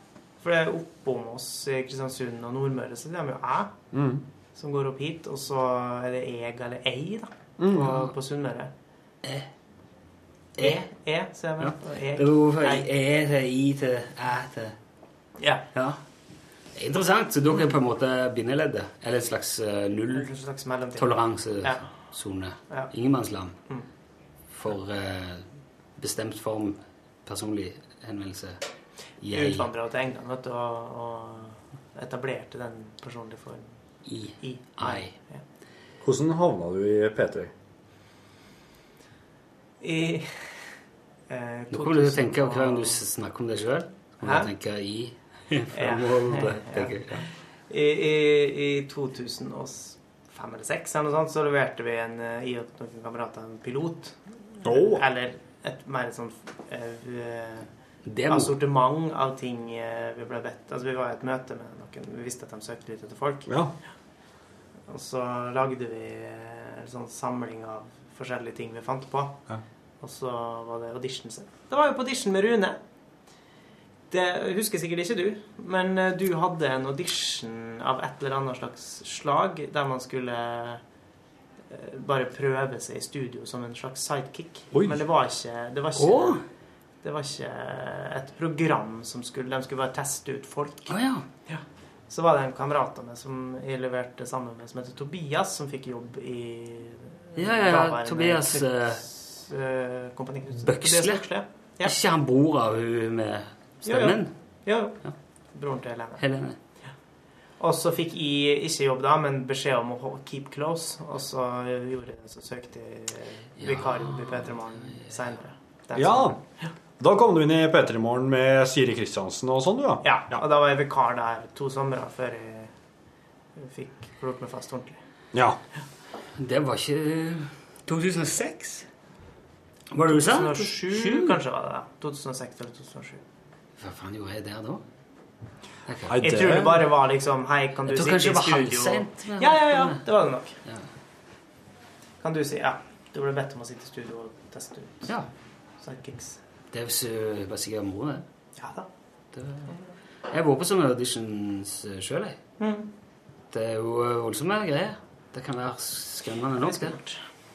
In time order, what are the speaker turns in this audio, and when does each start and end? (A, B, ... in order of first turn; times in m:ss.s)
0:00.4-0:03.8 A
0:03.9-0:04.2 B
0:04.5-0:08.7 A
0:07.6-0:08.0 B
0:10.6-0:12.8 A
0:11.6-0:14.8 C
0:15.4-0:15.6 A
0:15.7-0:16.0 C
0:16.8-0:20.3 C
0:20.1-0:21.9 A
0:21.0-0:23.6 C
0:24.5-0:25.5 C
0:26.0-0:28.6 C
0:29.2-0:29.7 C
0:29.3-0:33.7 A
0:34.0-0:35.1 C
0:34.4-0:35.4 A
0:36.0-0:37.5 B
0:39.8-0:40.3 A
0:41.3-0:43.0 A
0:41.7-0:47.2 C
0:44.2-0:44.5 A
0:45.7-0:47.1 A
0:47.7-0:57.7 A
0:54.6-0:55.0 B
0:58.0-0:58.6 C
0:58.3-1:03.5 A
1:03.5-1:03.7 B
1:04.9-1:09.4 A
1:10.0-1:12.8 A
1:14.1-1:20.8 A
1:21.7-1:26.4 A
1:24.7-1:25.0 B
1:26.0-1:26.4 C
1:27.0-1:31.0 A
1:30.9-1:31.2 C
1:31.5-1:41.9 A
1:37.4-1:39.0 C
1:40.6-1:41.2 C
1:41.8-1:44.3 C
1:43.8-1:45.0 A
1:45.5-1:46.2 A
1:46.2-1:46.6 C
1:47.6-1:56.7 A
1:53.6-1:55.1 C
1:55.9-1:56.4 B
1:57.0-2:00.0 B
2:00.0-2:02.7 A
2:03.6-2:05.0 A
2:05.3-2:05.6 B
2:06.4-2:08.8 C
2:09.9-2:11.4 C
2:10.1-2:13.2 A
2:13.8-2:14.8 C
2:15.9-2:16.2 C
2:16.1-2:16.9 B
2:16.2-2:20.6 A
2:17.8-2:20.0 C
2:22.2-2:25.1 A
2:25.8-2:26.4 A
2:26.7-2:28.2 C
2:28.6-2:28.9 A
2:29.3-2:29.7 C
2:30.3-2:32.4 C
2:32.6-2:32.9 A
2:33.5-2:37.0 C
2:36.6-2:37.2 A